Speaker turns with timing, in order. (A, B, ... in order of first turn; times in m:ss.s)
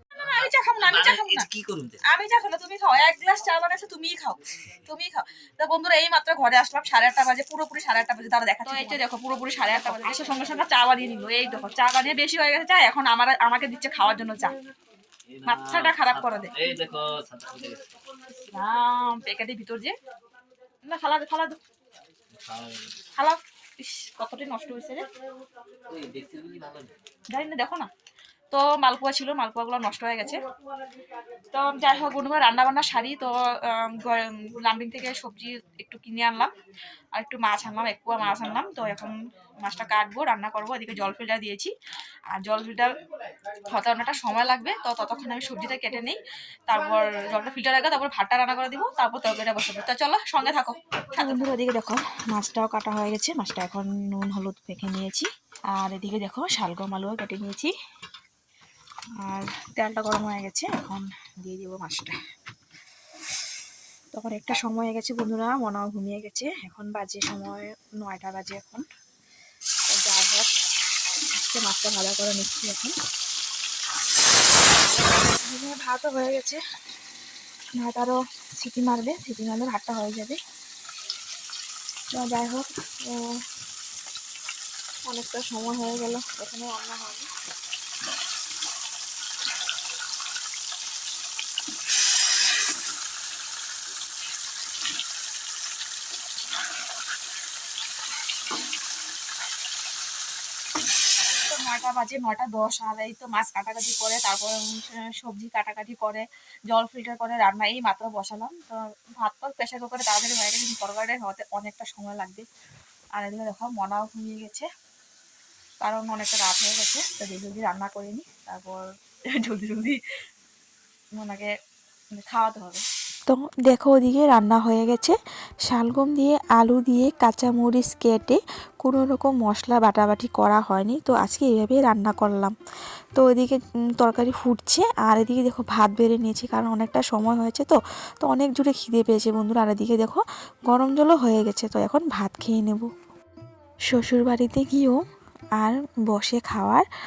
0:00.1-0:01.5 A
0:00.2-0:02.0 B
0:02.0-0:14.5 A
0:15.3-0:18.0 B
0:15.4-0:16.6 A
0:18.3-0:19.9 A
0:20.8-0:21.6 A
0:22.3-0:23.0 B
0:23.1-0:25.0 A
0:25.9-0:26.9 B
0:27.3-0:27.9 A
0:28.5-0:30.4 A
0:31.5-0:36.5 A
0:37.1-0:41.7 A
0:42.3-0:42.9 A
0:43.7-0:57.7 A
0:59.2-1:02.2 A
1:04.1-1:08.8 A
1:09.9-1:10.5 A
1:11.1-1:13.0 A
1:15.4-1:16.6 A
1:17.8-1:20.4 A
1:22.1-1:23.4 A
1:25.1-1:27.3 A
1:41.4-1:52.5 A
1:53.1-1:54.7 A
1:55.8-2:00.0 A
2:01.2-2:01.5 A
2:02.2-2:02.8 A
2:03.3-2:12.6 C
2:13.1-2:22.9 C
2:23.9-2:25.0 C
2:25.6-2:26.9 C